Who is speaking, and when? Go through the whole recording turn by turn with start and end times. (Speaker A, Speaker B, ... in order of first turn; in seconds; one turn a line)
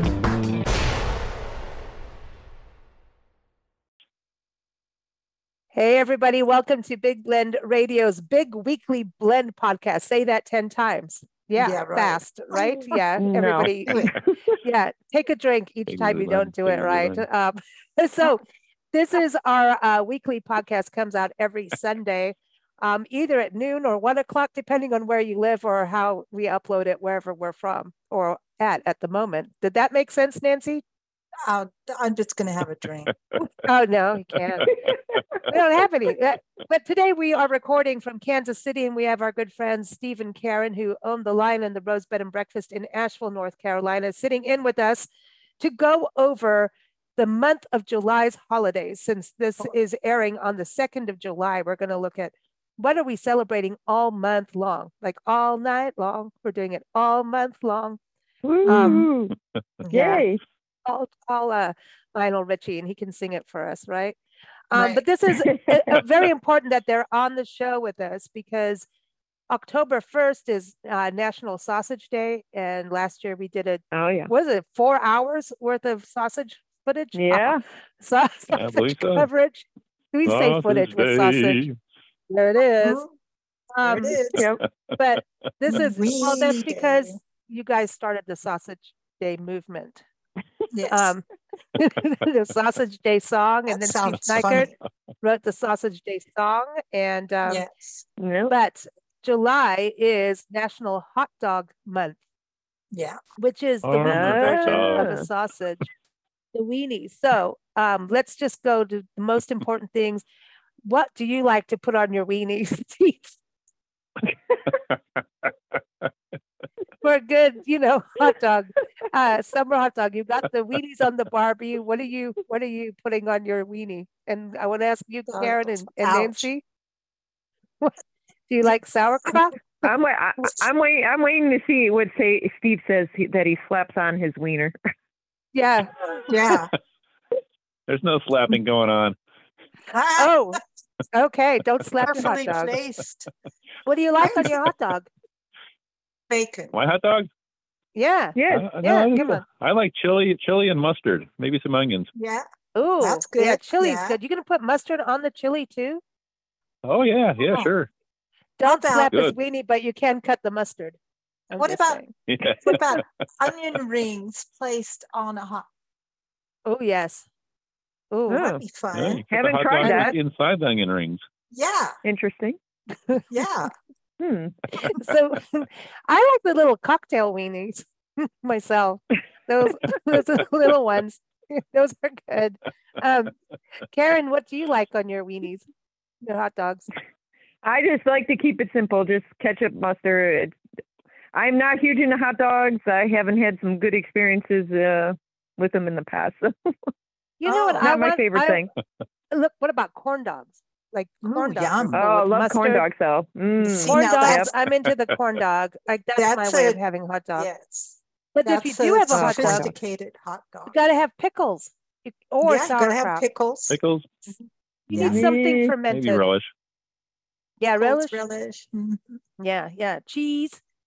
Speaker A: 5.7-14.0
Speaker B: 11.5-13.0
Speaker C: 13.2-14.3
Speaker B: 13.8-14.1
Speaker A: 14.6-30.8
Speaker D: 15.9-17.2
Speaker B: 31.4-33.1
Speaker A: 33.6-34.7
Speaker D: 34.6-35.2
Speaker A: 35.5-45.1
Speaker A: 45.6-58.0
Speaker C: 58.4-59.3
Speaker B: 58.6-59.1
Speaker A: 58.7-59.1
Speaker B: 59.8-60.2
Speaker C: 59.9-60.4
Speaker A: 60.9-64.2
Speaker A: 64.7-68.8
Speaker B: 64.7-65.0
Speaker C: 65.3-65.7
Speaker A: 69.5-81.7
Speaker C: 73.9-74.3
Speaker C: 77.1-77.6
Speaker D: 78.5-79.3
Speaker D: 80.2-81.8
Speaker A: 82.3-83.0
Speaker B: 82.8-83.1
Speaker A: 83.7-84.2
Speaker B: 83.8-84.4
Speaker C: 84.4-84.6
Speaker A: 85.0-90.0
Speaker B: 85.7-87.2
Speaker B: 90.7-91.1
Speaker A: 90.9-91.2
Speaker A: 91.7-94.7
Speaker B: 93.7-94.7
Speaker D: 94.3-94.6
Speaker A: 95.2-97.6
Speaker B: 97.5-98.0
Speaker C: 98.2-98.5
Speaker A: 98.5-102.2
Speaker B: 102.9-103.2
Speaker A: 103.4-105.8
Speaker D: 103.8-105.3
Speaker C: 104.0-105.2
Speaker A: 106.5-110.2
Speaker A: 110.8-113.3
Speaker D: 115.2-115.5
Speaker A: 117.0-126.6
Speaker B: 125.3-126.5
Speaker A: 128.5-129.6
Speaker C: 129.8-134.7
Speaker A: 135.5-136.2
Speaker B: 136.3-136.7
Speaker D: 137.9-139.2
Speaker B: 139.9-140.6
Speaker A: 140.2-140.6
Speaker A: 141.1-142.7
Speaker B: 142.0-143.3
Speaker A: 143.8-145.1
Speaker B: 144.2-144.7
Speaker B: 146.3-146.7
Speaker D: 146.7-147.3
Speaker A: 147.9-149.4
Speaker C: 148.3-148.7
Speaker D: 148.5-152.1
Speaker B: 152.1-152.4
Speaker A: 152.7-156.0
Speaker B: 153.0-154.2
Speaker D: 156.8-157.9
Speaker A: 158.6-161.0
Speaker B: 158.6-159.1
Speaker A: 161.5-162.1
Speaker B: 161.5-162.0
Speaker D: 162.3-163.0
Speaker B: 162.6-165.7
Speaker A: 166.7-167.2
Speaker A: 168.1-168.5
Speaker C: 168.3-168.6
Speaker B: 168.4-169.2
Speaker D: 168.9-171.2
Speaker C: 169.3-170.1
Speaker A: 169.8-170.2
Speaker B: 171.5-171.9
Speaker C: 172.0-172.6
Speaker B: 173.3-173.7
Speaker C: 174.2-174.5
Speaker A: 174.8-183.3
Speaker A: 183.9-185.6
Speaker A: 186.2-186.8
Speaker C: 187.6-190.6
Speaker C: 191.3-196.7
Speaker A: 197.4-198.6
Speaker B: 197.4-197.9
Speaker C: 197.8-198.7
Speaker A: 199.3-202.8
Speaker B: 201.2-202.0
Speaker C: 201.9-204.5
Speaker B: 203.6-204.5
Speaker A: 203.9-207.5
Speaker B: 206.2-206.8
Speaker B: 207.4-210.7
Speaker A: 208.3-209.7
Speaker C: 209.1-209.6
Speaker A: 210.7-213.2
Speaker B: 212.4-214.3
Speaker D: 213.7-214.1
Speaker B: 214.9-215.2
Speaker A: 214.9-216.3
Speaker C: 215.0-215.7
Speaker D: 215.9-216.5
Speaker A: 217.6-218.2
Speaker B: 217.8-219.2
Speaker A: 219.4-220.6